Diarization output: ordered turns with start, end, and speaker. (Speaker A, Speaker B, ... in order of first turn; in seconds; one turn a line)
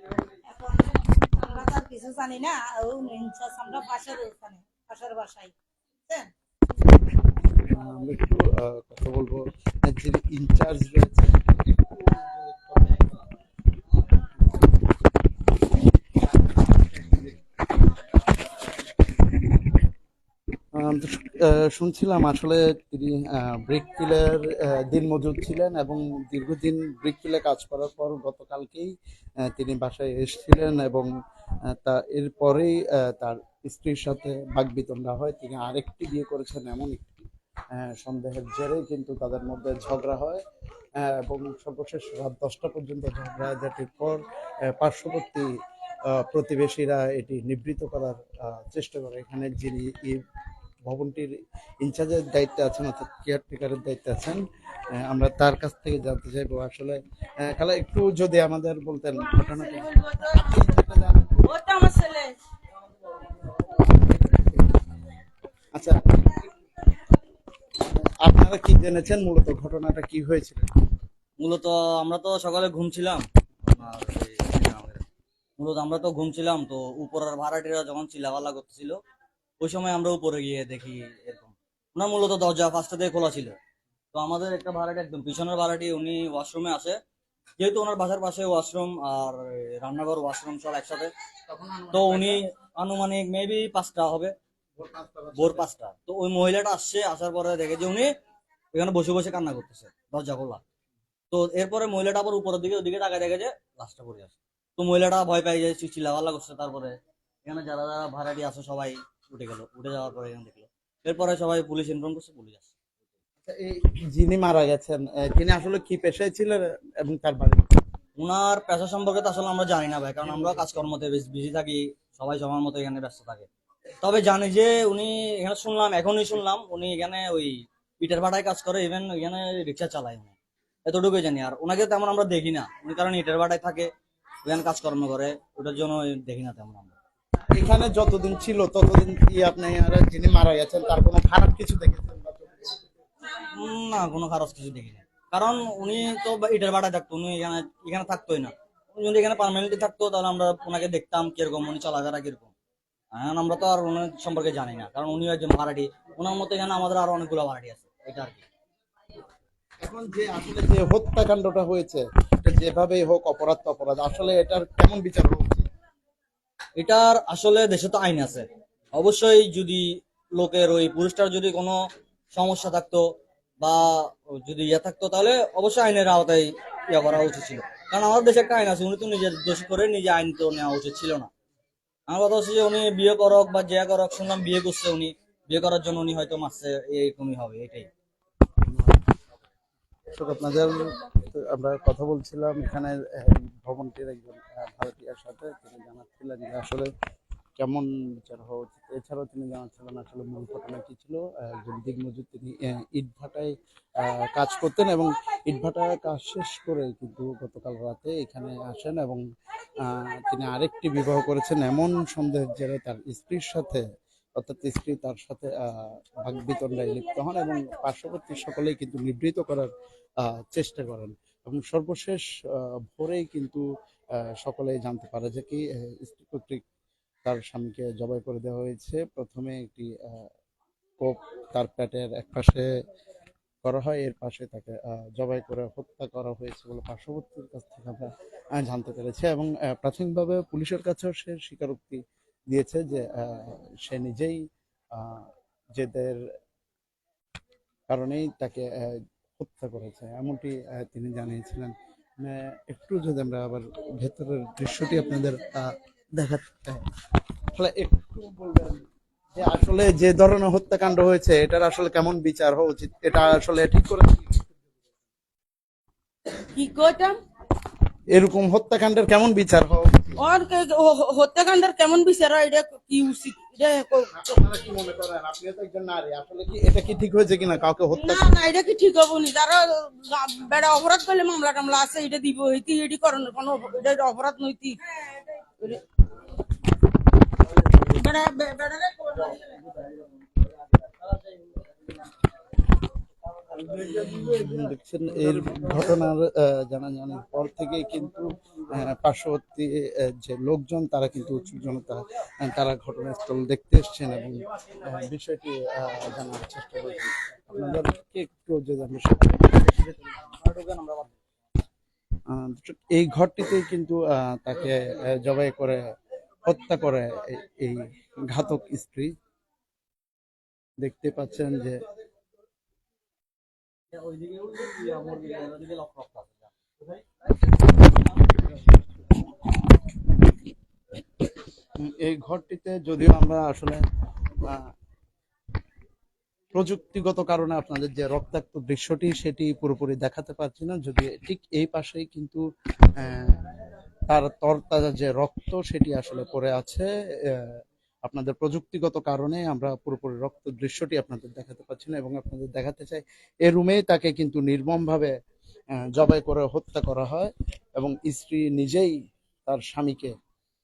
Speaker A: 0.5-5.5
Speaker B: 7.5-11.6
Speaker B: 20.7-28.9
Speaker B: 29.5-31.1
Speaker B: 31.7-40.4
Speaker B: 41.0-44.2
Speaker B: 44.7-45.5
Speaker B: 46.1-50.2
Speaker B: 50.9-61.5
Speaker C: 59.8-60.3
Speaker C: 61.4-62.4
Speaker B: 64.2-64.6
Speaker B: 65.8-66.4
Speaker B: 67.8-70.8
Speaker D: 71.4-75.0
Speaker D: 75.6-79.0
Speaker D: 79.6-83.5
Speaker D: 84.1-87.0
Speaker D: 87.6-91.1
Speaker B: 91.5-92.4
Speaker D: 91.9-94.3
Speaker B: 94.8-95.7
Speaker D: 95.4-98.1
Speaker D: 98.7-100.6
Speaker D: 101.3-112.8
Speaker B: 113.5-117.8
Speaker D: 118.2-123.5
Speaker D: 124.0-133.9
Speaker D: 134.5-136.9
Speaker B: 137.5-142.7
Speaker D: 143.4-152.5
Speaker D: 153.1-158.4
Speaker B: 159.8-165.7
Speaker D: 166.8-171.8
Speaker D: 172.3-173.0
Speaker D: 173.6-181.3
Speaker D: 182.1-187.9
Speaker B: 188.6-189.0
Speaker B: 190.1-196.9
Speaker B: 197.6-209.2
Speaker B: 209.8-213.8
Speaker B: 214.4-226.6
Speaker B: 227.2-230.3
Speaker B: 231.0-232.7
Speaker B: 233.6-246.3
Speaker B: 247.9-256.8
Speaker B: 257.5-264.5
Speaker C: 266.5-267.2
Speaker B: 268.1-270.2
Speaker C: 270.2-274.1
Speaker B: 274.1-278.4
Speaker C: 278.0-284.8
Speaker C: 287.7-289.5
Speaker B: 293.7-309.6
Speaker D: 309.7-311.1
Speaker B: 312.3-315.8
Speaker B: 316.4-319.1
Speaker B: 320.8-321.8
Speaker D: 323.9-326.5
Speaker B: 331.8-333.8
Speaker B: 334.4-334.7
Speaker B: 336.5-342.4
Speaker B: 342.9-343.5
Speaker B: 344.1-355.1
Speaker B: 355.8-358.9
Speaker B: 359.5-360.1